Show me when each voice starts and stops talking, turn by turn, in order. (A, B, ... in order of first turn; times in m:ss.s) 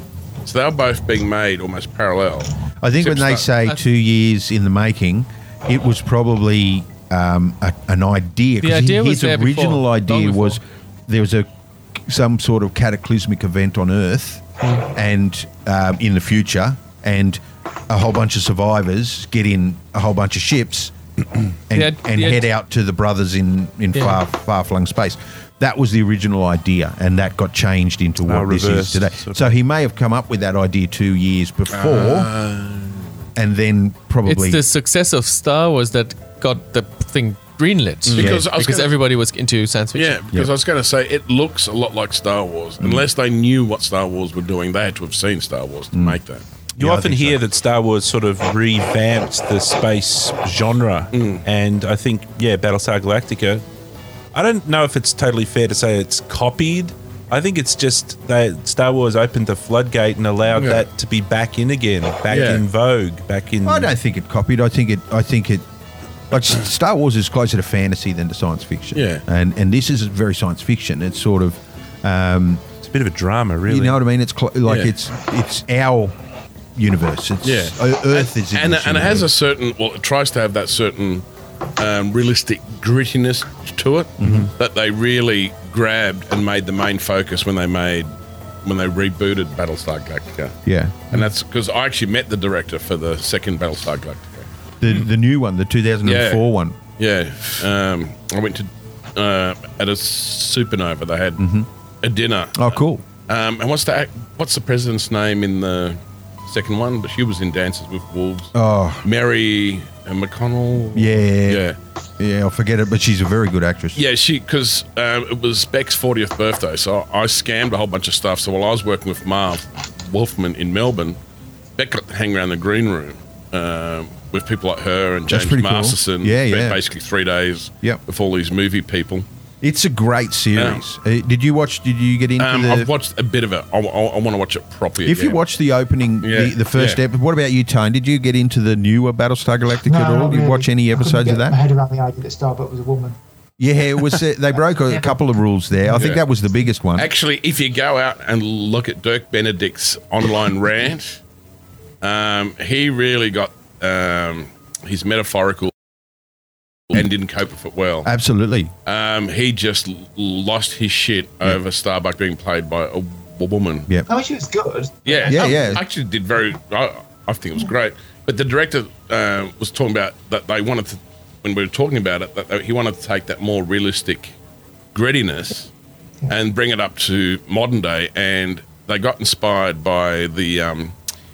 0:00.4-0:03.4 A
0:02.8-0:20.9 B
0:08.6-0:10.6 C
0:21.7-0:32.3 B
0:21.7-0:22.4 C
0:28.2-0:29.6 D
0:31.7-0:33.0 A
0:33.4-0:34.6 B
0:34.2-0:40.2 C
0:38.1-0:38.4 D
0:38.1-0:38.9 A
0:38.2-0:38.4 B
0:39.9-0:46.4 A
0:45.9-0:46.2 B
0:46.8-0:53.6 D
0:46.8-0:47.4 B
0:51.1-0:51.4 A
0:54.3-1:03.9 D
1:00.6-1:00.8 A
1:02.3-1:02.6 A
1:03.6-1:05.6 B
1:06.3-1:12.6 B
1:08.9-1:09.2 A
1:12.8-1:14.0 D
1:13.7-1:16.2 B
1:14.6-1:14.9 A
1:16.8-1:19.3 B
1:17.4-1:21.2 A
1:21.8-1:28.1 A
1:24.2-1:24.5 B
1:28.6-1:30.6 A
1:30.6-1:31.2 B
1:31.1-1:34.5 A
1:34.8-1:36.8 B
1:36.0-1:36.4 A
1:37.0-1:41.4 A
1:41.4-1:41.7 B
1:42.0-1:51.8 A
1:42.6-1:43.0 B
1:48.5-1:49.0 B
1:50.9-1:51.6 B
1:52.2-1:54.0 B
1:54.0-2:01.2 A
2:01.8-2:09.2 A
2:05.3-2:06.8 B
2:09.6-2:12.9 B
2:10.6-2:10.8 A
2:12.4-2:15.4 A
2:15.0-2:21.6 B
2:16.2-2:17.0 A
2:19.8-2:23.2 E
2:23.6-2:27.1 B
2:24.9-2:25.2 E
2:26.0-2:26.2 A
2:27.0-2:31.2 A
2:32.0-2:35.7 A
2:36.9-2:38.1 A
2:38.0-2:38.7 B
2:38.8-2:43.9 A
2:44.1-2:45.8 E
2:45.0-2:54.4 A
2:45.2-2:45.8 B
2:54.9-2:55.7 A
2:56.3-3:00.9 A